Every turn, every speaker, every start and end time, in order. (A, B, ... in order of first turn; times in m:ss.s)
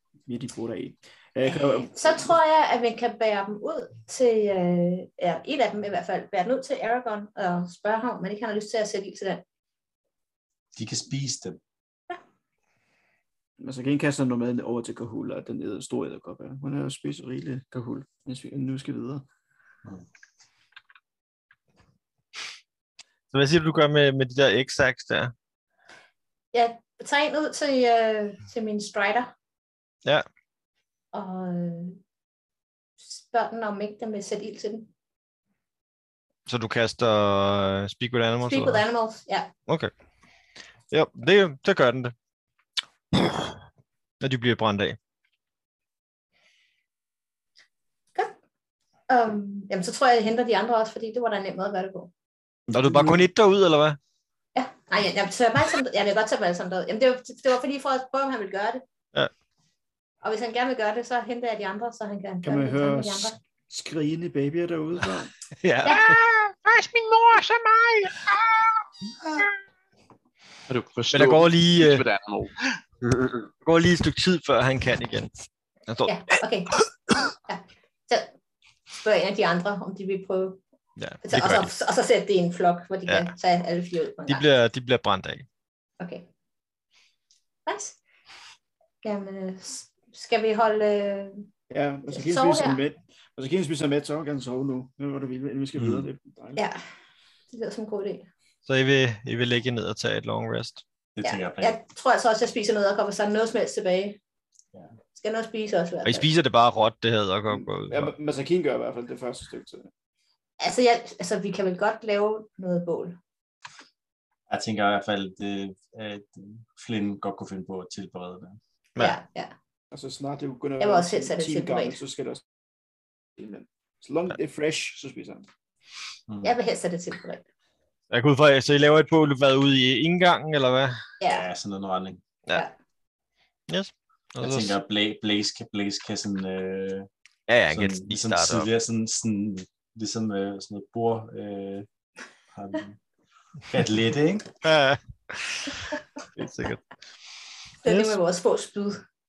0:00.3-0:02.3 A
0:01.4-0:09.4 B
0:10.7-0:11.6 C
0:13.6-0:19.2 A
0:23.3-0:25.3 D
0:26.5-0:29.3 B
0:31.1-0:32.0 B
0:33.0-0:34.9 B
0:36.5-0:38.8 D
0:38.4-0:39.5 B
0:40.9-0:42.1 D
0:43.1-0:43.5 D
0:44.2-0:45.0 D
0:49.1-0:52.1 B
0:52.7-0:53.2 C
0:52.7-0:54.0 D
0:54.5-0:58.8 B
1:00.2-1:03.4 B
1:02.4-1:05.3 A
1:05.6-1:06.7 D
1:05.8-1:06.2 B
1:06.6-1:08.6 E
1:07.5-1:08.2 D
1:10.7-1:13.4 E
1:11.1-1:12.0 D
1:13.6-1:16.1 D
1:16.0-1:16.8 B
1:17.4-1:18.3 B
1:19.0-1:20.6 B
1:21.0-1:21.7 D
1:21.2-1:24.5 B
1:24.2-1:25.4 D
1:26.0-1:26.3 B
1:27.6-1:28.0 B
1:29.0-1:31.5 B
1:31.7-1:36.6 A
1:32.1-1:32.8 B
1:35.7-1:36.1 C
1:37.5-1:38.3 B
1:38.6-1:40.8 D
1:41.2-1:41.8 C
1:41.2-1:44.2 B
1:45.1-1:46.3 B
1:46.0-1:48.1 D
1:47.5-1:49.9 A
1:50.6-1:53.2 B
1:54.5-1:58.6 C
1:59.0-1:59.5 B
1:59.9-2:02.5 A
2:00.8-2:02.0 B
2:03.4-2:05.4 A
2:06.4-2:07.4 B
2:08.1-2:11.0 D
2:11.2-2:11.5 B
2:11.3-2:12.2 C
2:13.7-2:14.8 D
2:14.4-2:17.1 C
2:17.5-2:18.7 D
2:17.7-2:21.9 C
2:22.5-2:23.0 C
2:23.7-2:24.5 C
2:24.6-2:26.8 D
2:27.8-2:29.0 B
2:27.8-2:28.2 D